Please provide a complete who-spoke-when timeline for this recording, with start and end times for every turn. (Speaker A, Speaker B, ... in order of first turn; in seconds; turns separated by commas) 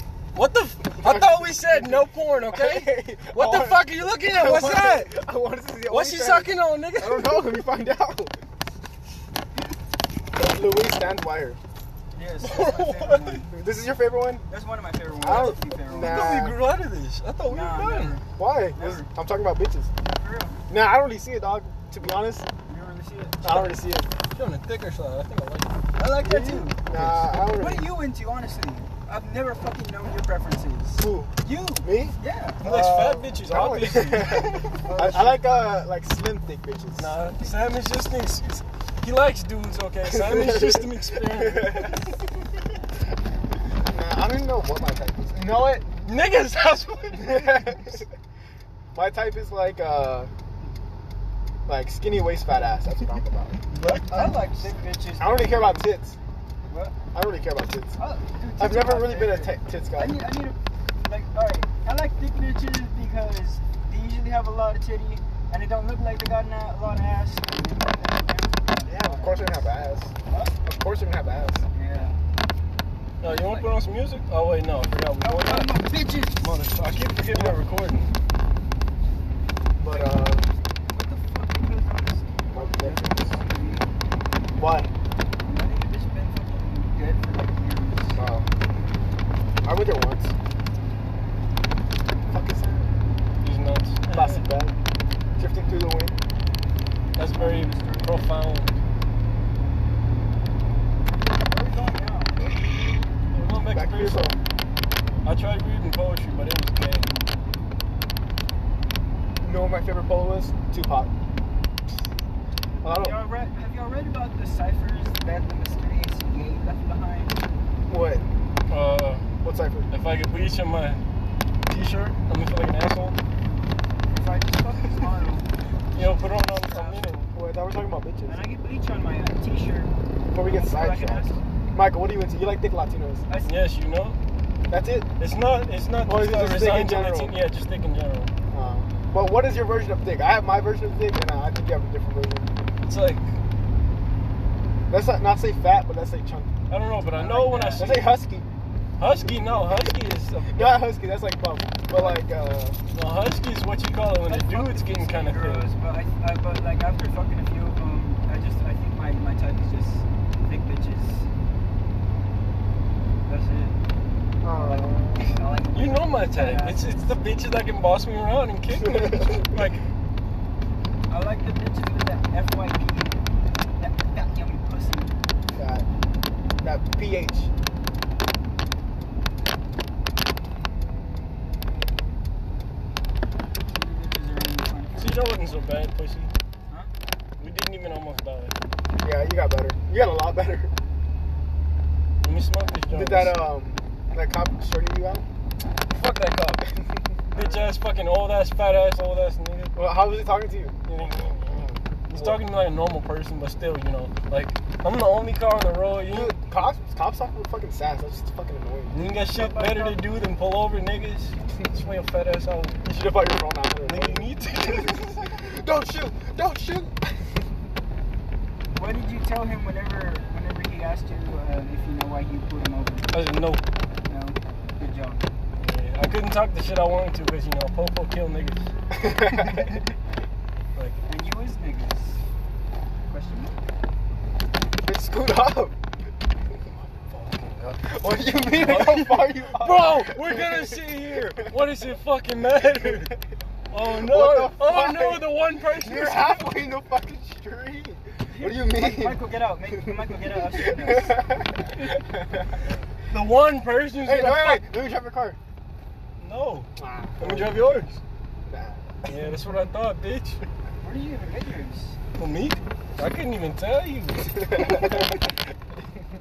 Speaker A: 0.3-5.1, Speaker B: 1.0-8.3, Speaker A: 5.8-7.7, Speaker B: 10.3-11.6, Speaker C: 12.1-13.5, Speaker A: 12.4-13.4, Speaker B: 13.5-14.4, Speaker C: 14.5-16.4, Speaker B: 15.2-16.6, Speaker A: 15.9-18.2, Speaker C: 17.4-19.1, Speaker B: 18.4-19.9, Speaker C: 20.1-20.6, Speaker B: 20.7-22.5, Speaker C: 22.7-23.8, Speaker B: 23.4-24.1, Speaker A: 24.3-25.7, Speaker C: 25.9-26.8, Speaker B: 26.2-27.9, Speaker A: 26.9-27.3, Speaker C: 27.5-32.6, Speaker B: 31.0-37.1, Speaker A: 32.6-35.2, Speaker C: 34.9-35.2, Speaker A: 37.0-42.2, Speaker B: 40.0-42.1, Speaker B: 43.9-45.9, Speaker A: 45.9-48.0, Speaker B: 47.1-48.1, Speaker B: 48.9-50.3, Speaker B: 51.7-54.4, Speaker C: 53.8-56.0, Speaker B: 55.2-56.2, Speaker C: 56.7-57.0, Speaker B: 57.1-58.0, Speaker C: 58.0-69.5, Speaker B: 58.6-60.2, Speaker B: 68.8-71.6, Speaker C: 70.3-70.6, Speaker C: 71.7-72.1, Speaker A: 73.2-75.8, Speaker C: 73.2-73.8, Speaker C: 75.2-76.4, Speaker A: 76.4-78.1, Speaker B: 77.0-77.5, Speaker B: 79.8-80.5, Speaker C: 80.9-83.9, Speaker B: 82.5-83.3, Speaker B: 84.5-84.9, Speaker C: 85.4-88.2, Speaker B: 88.2-88.5, Speaker B: 89.6-90.3, Speaker B: 92.3-92.9, Speaker A: 93.4-94.3, Speaker B: 94.1-94.7, Speaker C: 94.1-94.4, Speaker B: 95.4-96.2, Speaker A: 97.2-98.8, Speaker C: 97.3-98.2, Speaker C: 101.4-102.4, Speaker A: 103.3-104.3, Speaker B: 103.6-104.4, Speaker A: 105.2-107.2, Speaker B: 109.4-111.1, Speaker B: 112.8-113.2, Speaker C: 112.9-117.4, Speaker B: 117.9-118.2, Speaker A: 118.7-119.3, Speaker B: 119.4-119.9, Speaker A: 119.9-121.0, Speaker A: 121.7-123.2, Speaker C: 124.1-127.1, Speaker A: 125.9-127.3, Speaker B: 127.3-128.4, Speaker C: 128.3-131.4, Speaker B: 130.3-133.2, Speaker C: 133.3-133.6, Speaker A: 133.4-134.2, Speaker B: 134.7-135.1, Speaker A: 135.2-138.3, Speaker B: 136.0-137.3, Speaker B: 138.5-142.5, Speaker A: 142.8-143.4, Speaker B: 144.9-146.5, Speaker A: 146.7-148.1, Speaker C: 147.1-148.1, Speaker B: 147.8-148.5, Speaker A: 149.0-150.8, Speaker B: 149.7-152.8, Speaker C: 151.9-152.2, Speaker A: 152.9-155.7, Speaker C: 154.3-161.3, Speaker C: 163.2-163.8, Speaker B: 164.4-165.4, Speaker C: 164.5-166.8, Speaker A: 165.7-169.8, Speaker B: 168.7-169.5, Speaker C: 171.1-173.2, Speaker C: 173.8-175.1, Speaker B: 175.6-175.8, Speaker B: 176.6-177.5, Speaker C: 183.7-185.4, Speaker A: 185.0-186.3, Speaker A: 187.4-188.6, Speaker B: 189.0-190.7, Speaker A: 192.2-193.4, Speaker B: 192.9-195.2, Speaker A: 195.9-196.6, Speaker B: 196.7-197.0, Speaker A: 197.3-199.8, Speaker C: 197.3-197.7, Speaker B: 199.7-200.8, Speaker A: 200.9-206.4, Speaker B: 201.3-202.4, Speaker B: 206.1-208.9, Speaker A: 208.9-212.8, Speaker C: 209.0-210.0, Speaker B: 212.8-217.5, Speaker A: 213.8-215.3, Speaker C: 218.7-223.1, Speaker A: 223.1-223.6, Speaker C: 224.1-225.2, Speaker A: 225.6-228.7, Speaker B: 228.9-229.8, Speaker A: 230.7-231.0, Speaker C: 231.1-232.2, Speaker C: 233.1-233.6, Speaker B: 234.8-235.8, Speaker A: 237.1-237.8, Speaker B: 237.8-240.8, Speaker A: 238.5-243.1, Speaker B: 242.8-243.1, Speaker A: 243.7-246.6, Speaker B: 243.7-249.2, Speaker C: 248.3-251.4, Speaker B: 249.8-252.6, Speaker A: 253.1-254.7, Speaker B: 254.0-255.4, Speaker A: 256.2-258.0, Speaker B: 256.8-257.6, Speaker B: 258.5-259.2, Speaker A: 259.1-260.4, Speaker C: 260.8-262.0, Speaker A: 262.1-265.0, Speaker B: 264.6-265.1